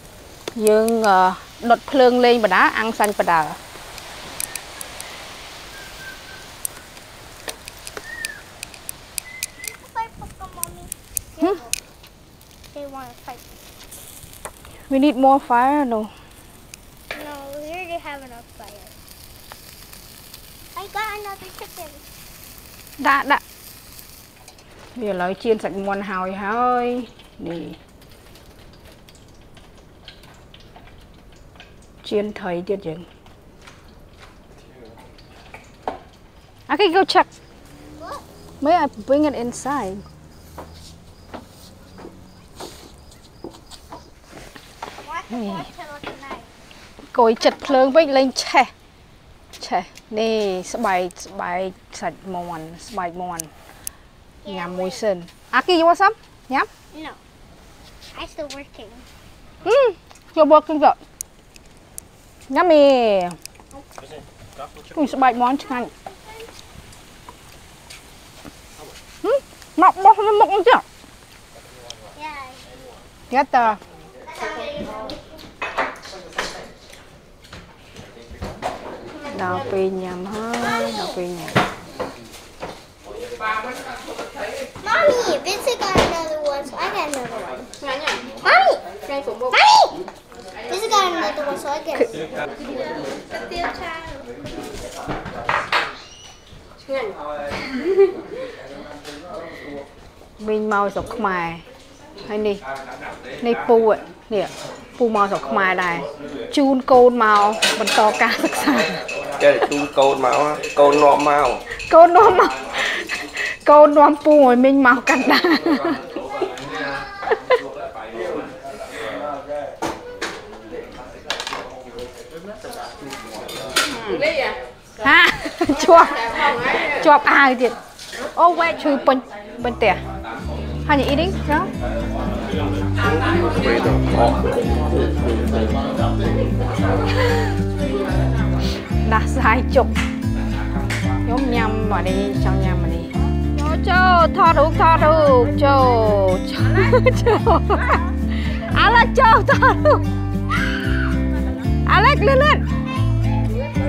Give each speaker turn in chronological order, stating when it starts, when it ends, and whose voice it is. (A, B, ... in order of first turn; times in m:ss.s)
0:00.6-0:03.6 A
0:09.6-0:11.7 B
0:12.7-0:13.4 B
0:14.9-0:16.1 A
0:17.1-0:18.9 B
0:20.8-0:22.0 B
0:23.0-0:23.4 A
0:25.0-0:27.8 A
0:32.0-0:33.1 A
0:36.7-0:37.3 A
0:38.0-0:38.2 B
0:38.6-0:40.0 A
0:45.0-0:46.5 B
0:45.3-0:45.7 A
0:47.1-0:48.7 A
0:47.6-0:48.0 B
0:49.6-0:53.5 A
0:54.4-0:55.0 B
0:54.5-0:56.7 A
0:56.9-0:57.2 B
0:58.1-0:59.0 B
0:59.6-1:01.0 A
1:02.5-1:03.4 A
1:04.9-1:05.9 A
1:09.2-1:10.8 A
1:12.1-1:12.6 B
1:13.3-1:13.8 A
1:14.4-1:15.1 B
1:19.3-1:21.6 A
1:20.6-1:21.0 B
1:24.8-1:27.7 B
1:27.8-1:28.3 A
1:28.4-1:29.0 B
1:29.1-1:29.5 A
1:29.5-1:30.0 B
1:30.7-1:32.2 B
1:33.5-1:34.0 B
1:40.4-1:41.6 A
1:42.2-1:42.6 A
1:43.4-1:49.0 A
1:49.4-1:51.6 C
1:51.9-1:56.1 A
2:05.0-2:07.8 A
2:08.4-2:10.0 A
2:10.9-2:11.7 A
2:13.0-2:15.8 C
2:19.0-2:19.9 A
2:21.2-2:30.0 A
2:31.8-2:32.6 A